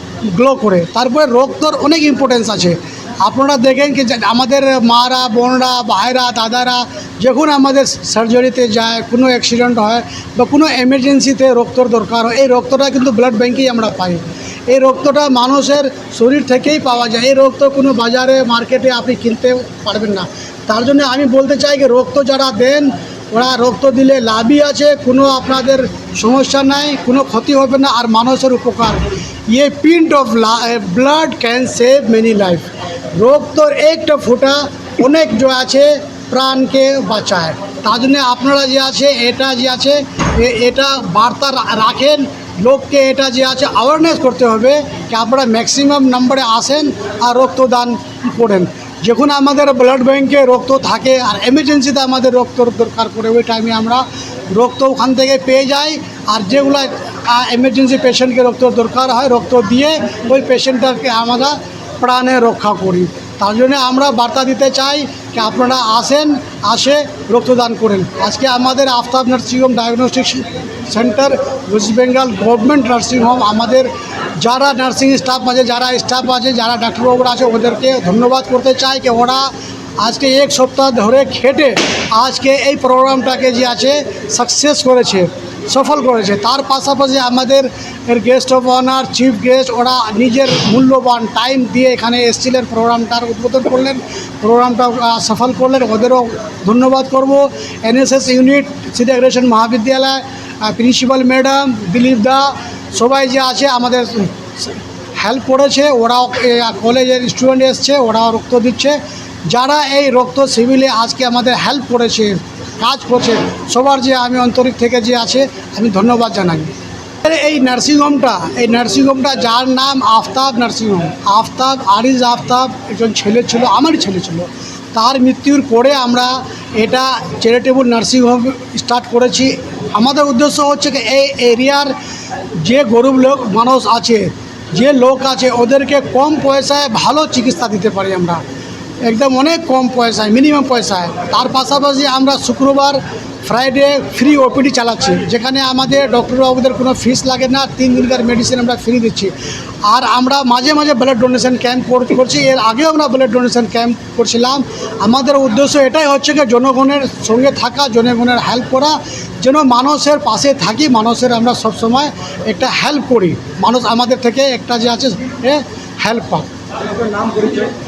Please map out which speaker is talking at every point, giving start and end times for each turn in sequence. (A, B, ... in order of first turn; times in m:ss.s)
0:00.3-1:13.9 A
1:14.4-1:56.7 A
1:57.2-2:11.9 A
2:12.6-2:18.4 A
2:19.0-2:29.3 A
2:29.8-2:46.5 A